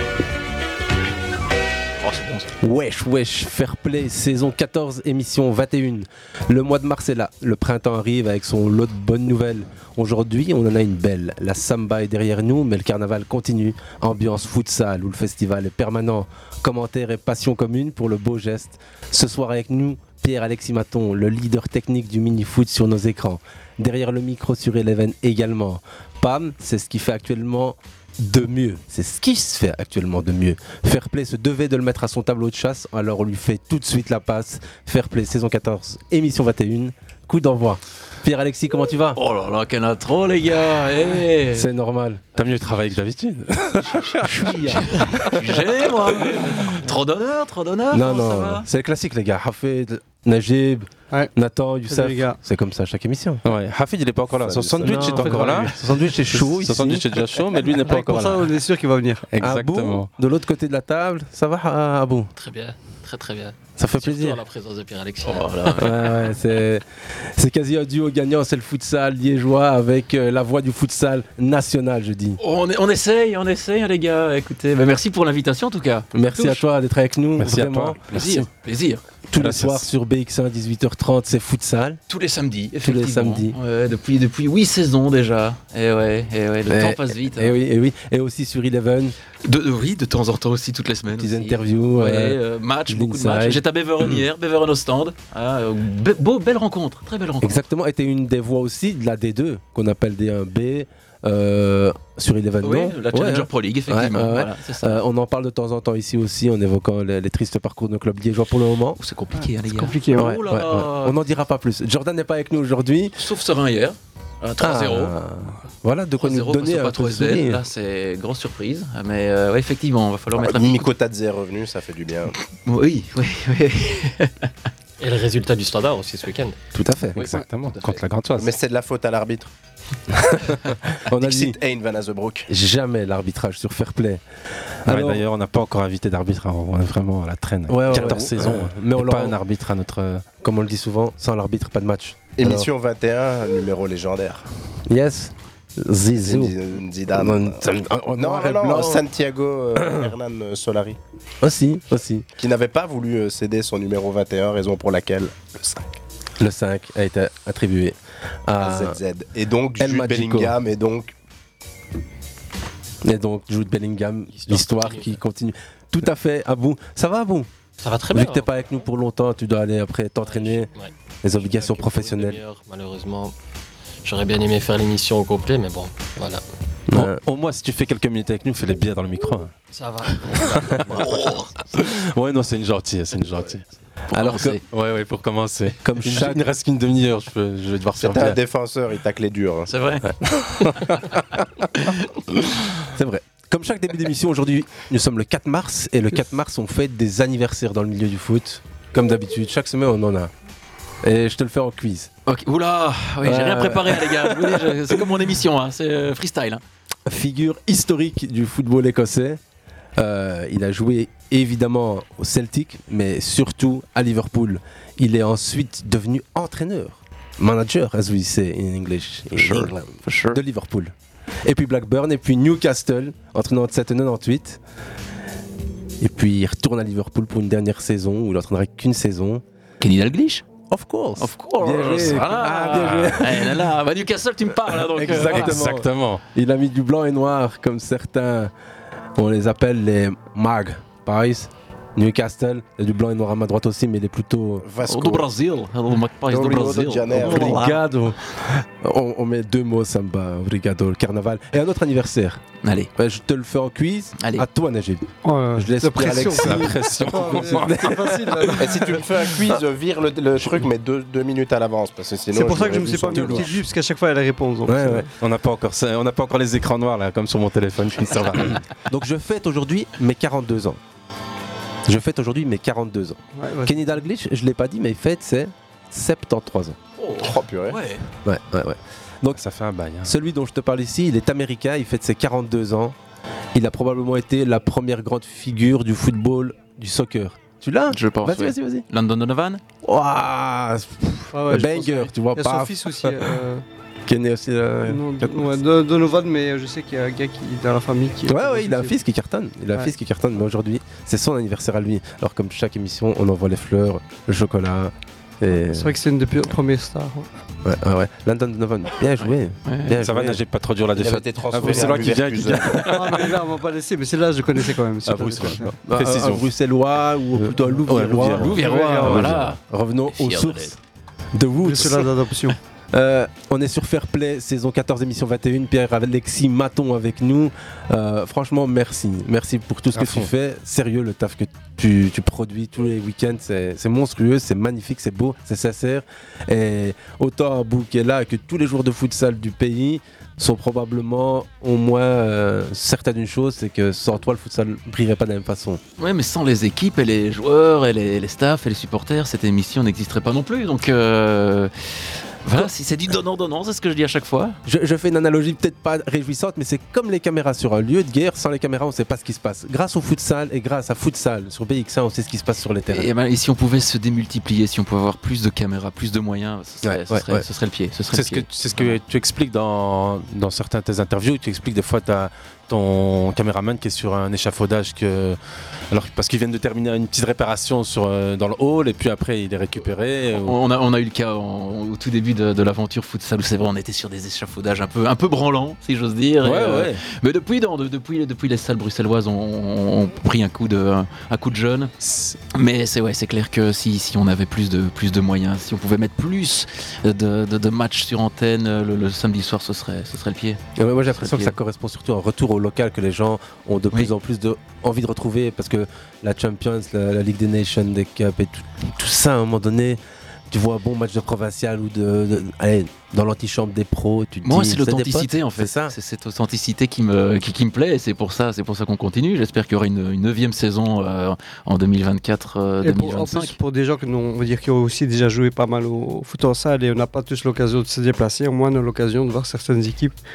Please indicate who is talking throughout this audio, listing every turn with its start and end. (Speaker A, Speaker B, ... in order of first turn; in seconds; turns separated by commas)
Speaker A: 2.6-39.2, Speaker B: 39.2-41.7, Speaker A: 41.5-42.4, Speaker C: 42.3-44.3, Speaker B: 43.8-48.7, Speaker A: 44.4-44.9, Speaker A: 47.9-53.5, Speaker D: 51.9-52.4, Speaker C: 53.4-58.5, Speaker A: 54.3-57.1, Speaker D: 54.9-55.6, Speaker D: 57.8-59.3, Speaker C: 59.3-60.1, Speaker A: 59.4-62.3, Speaker E: 62.4-66.0, Speaker A: 63.8-64.4, Speaker B: 65.2-66.1, Speaker A: 65.8-72.4, Speaker B: 72.4-76.6, Speaker A: 76.1-78.4, Speaker C: 77.4-78.5, Speaker B: 78.1-79.0, Speaker A: 79.3-82.0, Speaker C: 79.4-79.9, Speaker B: 82.1-87.6, Speaker A: 82.7-83.6, Speaker A: 86.7-89.2, Speaker B: 89.5-97.7, Speaker A: 91.2-93.6, Speaker A: 97.4-109.0, Speaker B: 102.6-105.0, Speaker B: 109.0-111.2, Speaker D: 109.7-110.4, Speaker A: 110.2-113.2, Speaker B: 113.2-115.2, Speaker A: 114.6-117.6, Speaker B: 116.2-120.9, Speaker F: 120.4-122.3, Speaker B: 122.7-124.5, Speaker E: 125.0-126.6, Speaker A: 126.8-127.3, Speaker C: 127.1-128.5, Speaker B: 127.2-128.0, Speaker F: 128.4-129.5, Speaker A: 130.2-131.6, Speaker F: 131.1-132.5, Speaker A: 132.5-134.2, Speaker A: 134.8-135.2, Speaker C: 134.9-140.3, Speaker A: 137.7-139.4, Speaker A: 140.3-142.7, Speaker F: 142.4-144.5, Speaker A: 144.9-146.6, Speaker F: 146.2-147.6, Speaker A: 147.1-149.1, Speaker F: 148.2-151.0, Speaker A: 151.4-152.3, Speaker F: 152.4-156.0, Speaker A: 156.4-159.0, Speaker F: 158.6-161.2, Speaker A: 159.8-160.6, Speaker A: 163.0-167.5, Speaker E: 164.5-165.2, Speaker E: 167.8-168.6, Speaker A: 168.1-170.7, Speaker E: 170.2-173.3, Speaker A: 171.2-172.4, Speaker E: 174.0-176.4, Speaker A: 176.9-177.2, Speaker C: 176.9-179.5, Speaker E: 179.7-181.4, Speaker B: 180.9-181.5, Speaker C: 181.7-183.7, Speaker B: 184.1-184.6, Speaker A: 184.2-184.5, Speaker C: 184.3-188.4, Speaker A: 185.8-186.5, Speaker F: 188.0-189.7, Speaker B: 189.7-191.0, Speaker B: 191.8-192.0, Speaker A: 192.5-200.3, Speaker A: 201.0-202.1, Speaker B: 202.3-206.6, Speaker A: 203.2-204.8, Speaker A: 207.1-209.4, Speaker A: 210.0-224.6, Speaker B: 219.3-220.4, Speaker A: 226.0-229.4, Speaker B: 229.8-230.5, Speaker A: 230.7-233.7, Speaker B: 231.2-235.6, Speaker A: 234.7-238.5, Speaker C: 235.0-236.2, Speaker A: 239.2-244.7, Speaker F: 244.6-245.3, Speaker B: 244.8-247.8, Speaker F: 246.3-247.7, Speaker A: 247.1-252.4, Speaker B: 252.6-252.9, Speaker A: 253.0-258.9, Speaker B: 254.2-254.4, Speaker D: 255.2-259.0, Speaker C: 256.1-257.7, Speaker F: 258.6-263.6, Speaker D: 262.3-265.1, Speaker C: 263.1-263.5, Speaker A: 263.1-263.5, Speaker A: 264.7-265.1, Speaker C: 265.2-268.6, Speaker A: 268.1-270.8, Speaker A: 271.9-276.8, Speaker D: 273.4-274.0, Speaker B: 277.0-278.0, Speaker F: 277.2-277.8, Speaker A: 278.2-279.4, Speaker C: 279.3-280.1, Speaker A: 280.1-283.0, Speaker A: 283.5-288.9, Speaker B: 287.9-289.6, Speaker A: 289.8-293.3, Speaker D: 291.3-293.6, Speaker A: 294.1-295.6, Speaker D: 294.8-298.9, Speaker A: 298.3-305.9, Speaker D: 305.6-307.3, Speaker A: 307.6-310.4, Speaker B: 309.2-310.0, Speaker C: 309.9-313.4, Speaker F: 311.0-312.9, Speaker A: 311.6-312.1, Speaker D: 312.8-315.8, Speaker C: 315.1-316.4, Speaker A: 315.8-320.8, Speaker C: 317.4-319.5, Speaker B: 318.3-319.6, Speaker D: 318.6-319.3, Speaker B: 320.1-320.8, Speaker A: 321.3-322.1, Speaker D: 321.6-322.6, Speaker A: 322.9-345.8, Speaker C: 330.0-330.3, Speaker B: 346.0-351.7, Speaker B: 352.4-354.6, Speaker A: 354.7-363.1, Speaker B: 362.9-369.0, Speaker A: 366.8-367.5, Speaker C: 368.1-375.4, Speaker C: 375.9-380.6, Speaker B: 380.4-391.9, Speaker C: 386.4-387.0, Speaker C: 392.0-392.4, Speaker B: 392.5-401.5, Speaker A: 400.8-415.9, Speaker B: 414.4-423.6, Speaker D: 422.8-430.2